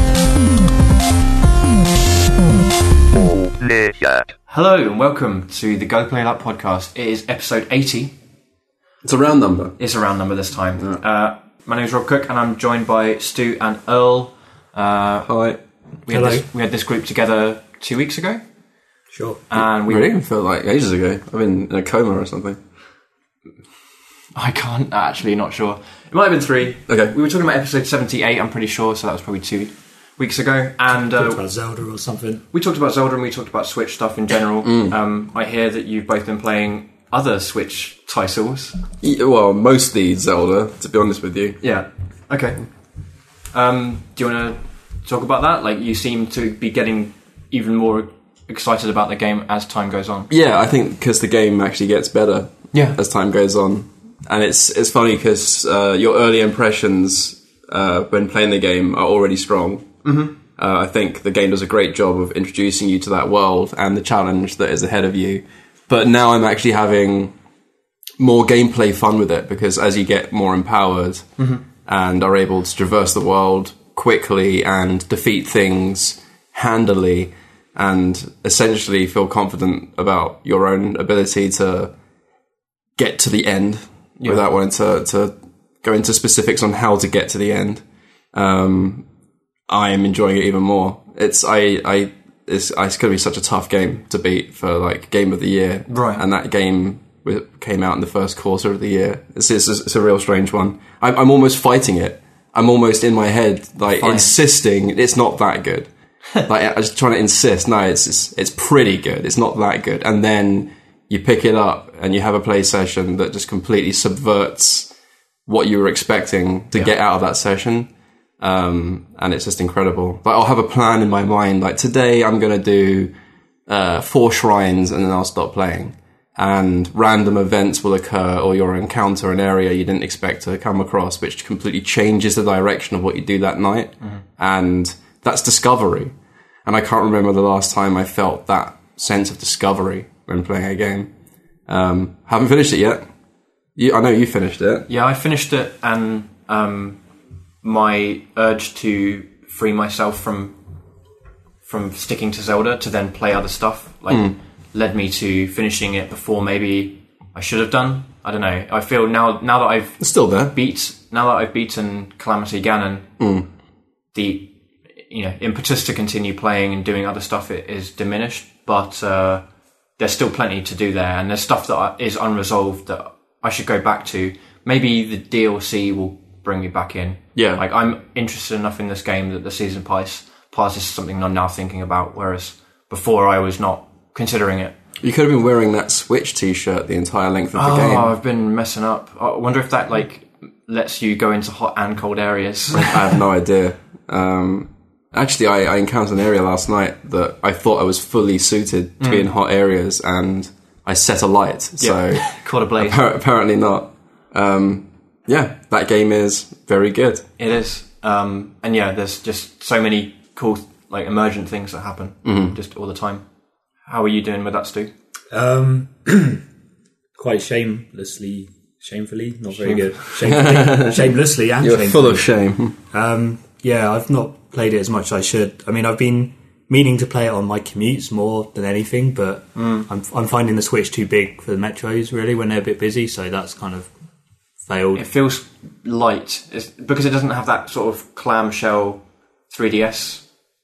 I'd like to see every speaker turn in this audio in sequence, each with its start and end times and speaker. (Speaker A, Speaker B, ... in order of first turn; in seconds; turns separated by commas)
Speaker A: 4.5-8.2, Speaker B: 9.0-9.8, Speaker A: 9.8-15.3, Speaker B: 15.2-15.6, Speaker A: 16.1-18.4, Speaker C: 16.1-16.4, Speaker C: 19.1-19.4, Speaker A: 19.5-20.1, Speaker B: 19.6-22.6, Speaker A: 24.3-31.4, Speaker B: 26.9-27.1, Speaker C: 30.9-32.4, Speaker A: 32.5-38.8, Speaker B: 34.6-35.0, Speaker B: 39.0-41.6, Speaker A: 41.6-50.3, Speaker B: 50.3-67.3, Speaker A: 52.7-53.0, Speaker A: 60.0-60.4, Speaker B: 68.2-81.9, Speaker A: 71.4-71.6, Speaker B: 83.0-89.0, Speaker B: 89.7-105.9, Speaker A: 95.9-96.2, Speaker A: 104.0-104.3, Speaker B: 106.4-114.9, Speaker B: 115.5-123.1, Speaker B: 123.7-141.1, Speaker B: 141.7-143.1, Speaker B: 143.8-144.9, Speaker A: 144.9-147.0, Speaker A: 147.6-150.6, Speaker A: 151.6-163.4, Speaker B: 154.1-154.3, Speaker B: 160.0-160.5, Speaker B: 163.2-163.5, Speaker A: 164.1-184.8, Speaker B: 177.3-177.6, Speaker B: 185.0-188.1, Speaker A: 187.5-193.2, Speaker B: 192.9-207.3, Speaker A: 199.0-199.3, Speaker A: 201.8-203.0, Speaker A: 207.4-213.3, Speaker B: 212.2-212.6, Speaker A: 213.8-214.9, Speaker C: 215.3-216.4, Speaker C: 217.2-233.9, Speaker A: 219.6-220.1, Speaker B: 220.2-222.8, Speaker A: 229.6-229.8, Speaker C: 234.6-235.0, Speaker A: 234.9-240.3